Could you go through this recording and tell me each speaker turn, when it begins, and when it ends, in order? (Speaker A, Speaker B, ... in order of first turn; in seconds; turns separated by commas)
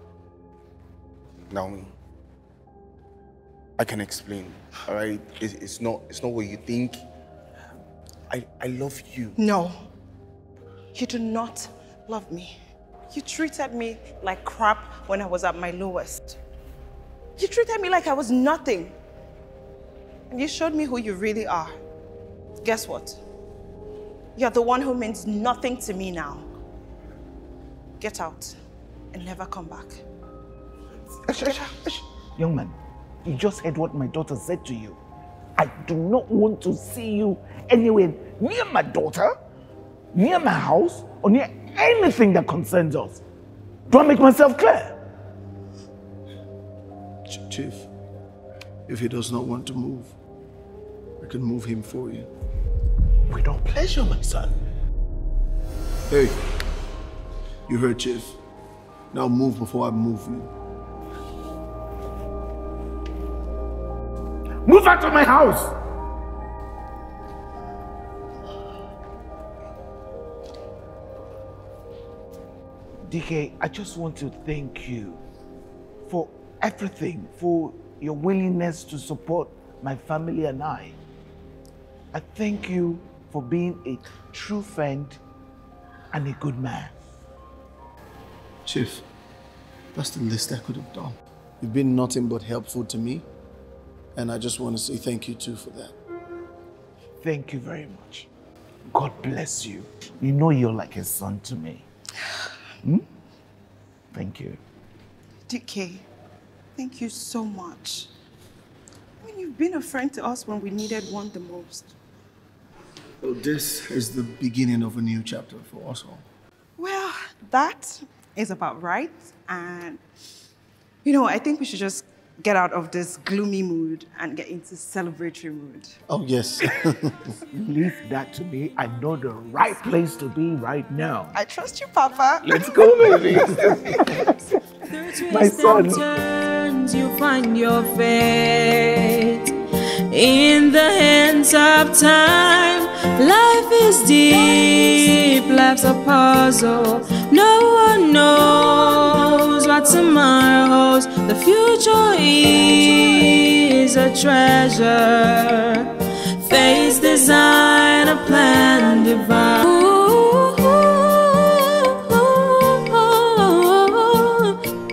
Speaker A: 1.5-1.9, Speaker A: 3.8-7.0, Speaker A: 8.3-9.3, Speaker B: 9.3-9.9, Speaker B: 10.9-12.6, Speaker B: 13.1-16.4, Speaker B: 17.4-18.9, Speaker B: 20.3-21.8, Speaker B: 22.6-23.2, Speaker B: 24.4-26.5, Speaker B: 28.0-28.6, Speaker B: 29.1-30.0, Speaker C: 31.2-35.0, Speaker B: 31.4-31.8, Speaker C: 35.5-39.3, Speaker C: 40.1-43.2, Speaker C: 43.9-45.0, Speaker D: 47.3-47.9, Speaker D: 48.9-50.1, Speaker D: 51.2-52.3, Speaker C: 53.3-54.6, Speaker D: 56.1-56.3, Speaker D: 57.7-58.4, Speaker D: 59.1-60.5, Speaker C: 64.6-65.8, Speaker C: 73.0-75.2, Speaker C: 76.0-81.0, Speaker C: 82.1-85.2, Speaker C: 86.1-87.0, Speaker D: 88.7-89.0, Speaker D: 89.9-93.2, Speaker D: 94.1-95.9, Speaker C: 97.2-98.3, Speaker C: 98.9-101.9, Speaker C: 104.1-104.6, Speaker B: 105.5-106.0, Speaker B: 106.8-108.1, Speaker B: 109.2-111.9, Speaker D: 113.2-116.2, Speaker B: 116.8-120.0, Speaker B: 121.0-126.0, Speaker D: 126.1-127.3, Speaker C: 127.5-131.3, Speaker B: 131.3-133.1, Speaker C: 132.4-134.3, Speaker E: 134.9-139.5, Speaker C: 135.3-136.2, Speaker E: 140.1-164.6